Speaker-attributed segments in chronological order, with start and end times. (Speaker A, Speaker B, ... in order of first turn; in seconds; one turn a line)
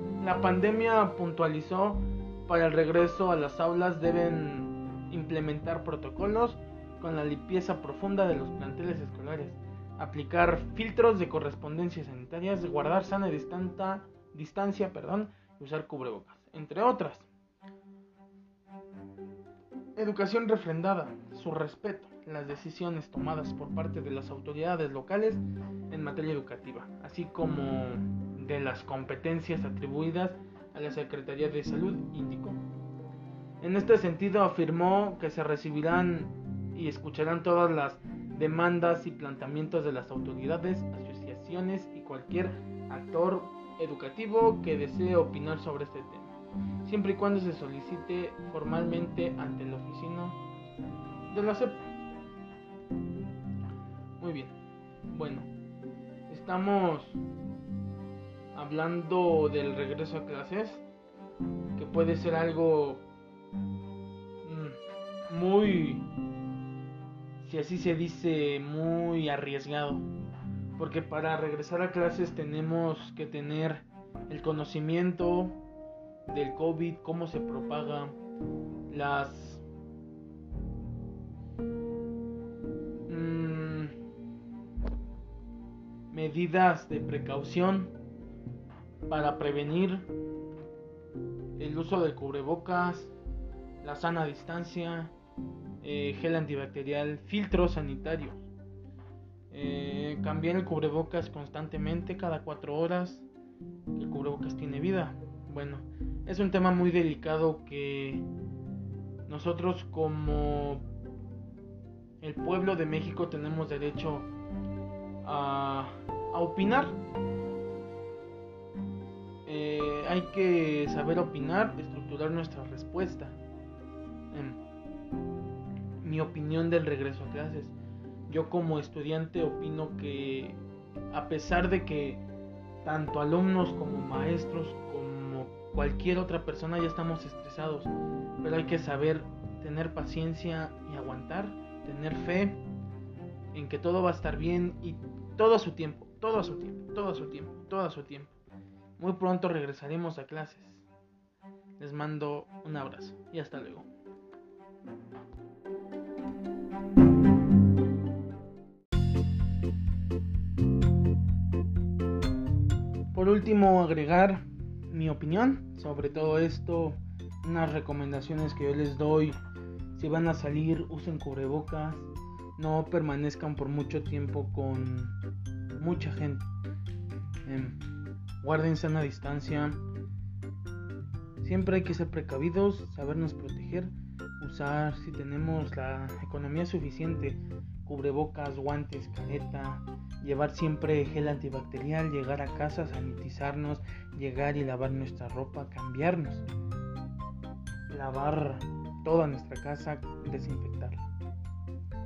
Speaker A: 0.2-17.3
Speaker A: 19.9-32.6
Speaker A: 33.6-46.3
Speaker A: 46.8-50.4
Speaker A: 51.3-51.8
Speaker A: 54.2-54.5
Speaker A: 55.1-55.5
Speaker A: 56.3-57.2
Speaker A: 58.5-60.8
Speaker A: 61.8-63.0
Speaker A: 64.4-64.8
Speaker A: 65.3-66.0
Speaker A: 67.4-70.0
Speaker A: 70.8-75.6
Speaker A: 76.2-78.2
Speaker A: 78.9-79.6
Speaker A: 83.1-83.9
Speaker A: 86.1-87.9
Speaker A: 89.1-90.1
Speaker A: 91.6-93.1
Speaker A: 93.8-95.1
Speaker A: 95.8-98.5
Speaker A: 99.5-103.2
Speaker A: 103.9-108.2
Speaker A: 109.3-110.8
Speaker A: 112.2-114.3
Speaker A: 115.2-117.0
Speaker A: 119.5-123.4
Speaker A: 124.3-124.6
Speaker A: 126.0-127.7
Speaker A: 128.3-130.6
Speaker A: 131.1-132.2
Speaker A: 132.8-142.6
Speaker A: 143.5-148.3
Speaker A: 149.0-150.8
Speaker A: 151.8-153.9
Speaker A: 163.1-169.3
Speaker A: 169.9-175.2
Speaker A: 175.8-176.5
Speaker A: 177.4-177.8
Speaker A: 178.4-179.8
Speaker A: 181.4-196.4
Speaker A: 197.9-201.1